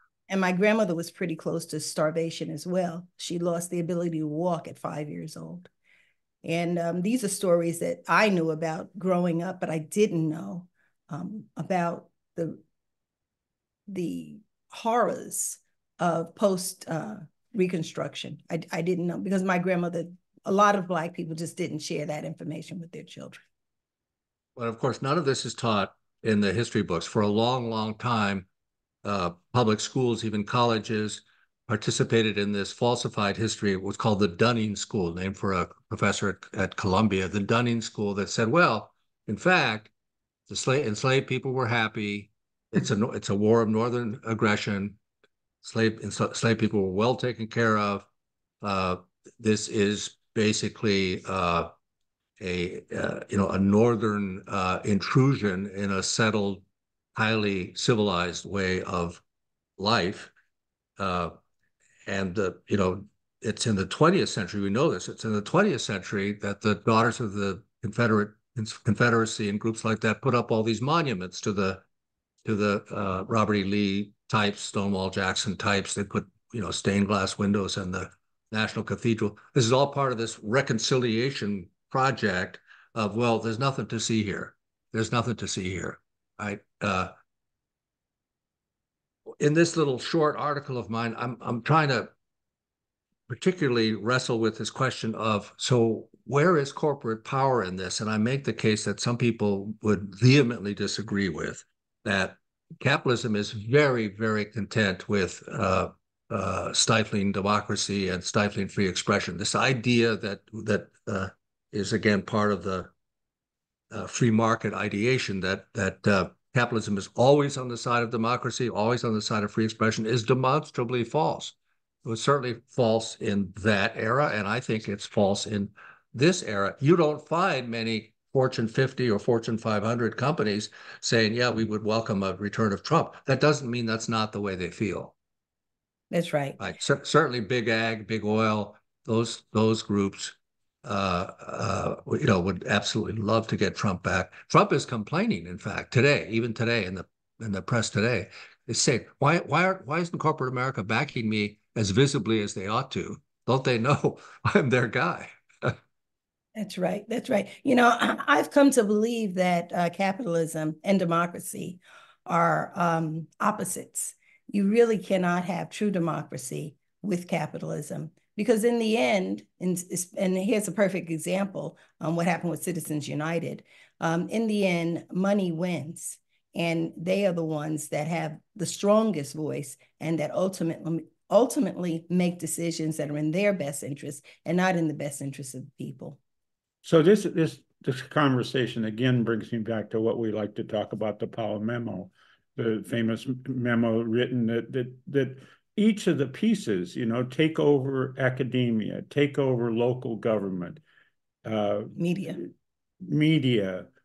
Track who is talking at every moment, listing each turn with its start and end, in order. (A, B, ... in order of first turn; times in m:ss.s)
0:00.3-0:05.7 A
0:06.4-0:12.6 A
0:13.9-0:23.4 A
0:24.6-0:28.5 B
0:29.0-0:39.9 B
0:40.5-0:45.0 B
0:45.6-0:48.1 B
0:48.6-0:51.7 B
0:52.4-0:59.2 B
0:59.8-1:00.3 B
1:01.0-1:01.3 B
1:02.1-1:11.8 B
1:12.4-1:27.1 B
1:29.4-1:32.1 B
1:33.3-1:52.9 B
1:53.9-2:15.1 B
2:16.1-2:16.6 A
2:16.6-2:35.8 B
2:36.5-3:06.2 A
3:06.8-3:20.8 C
3:21.4-3:21.9 C
3:21.9-3:22.4 A
3:23.0-3:23.9 C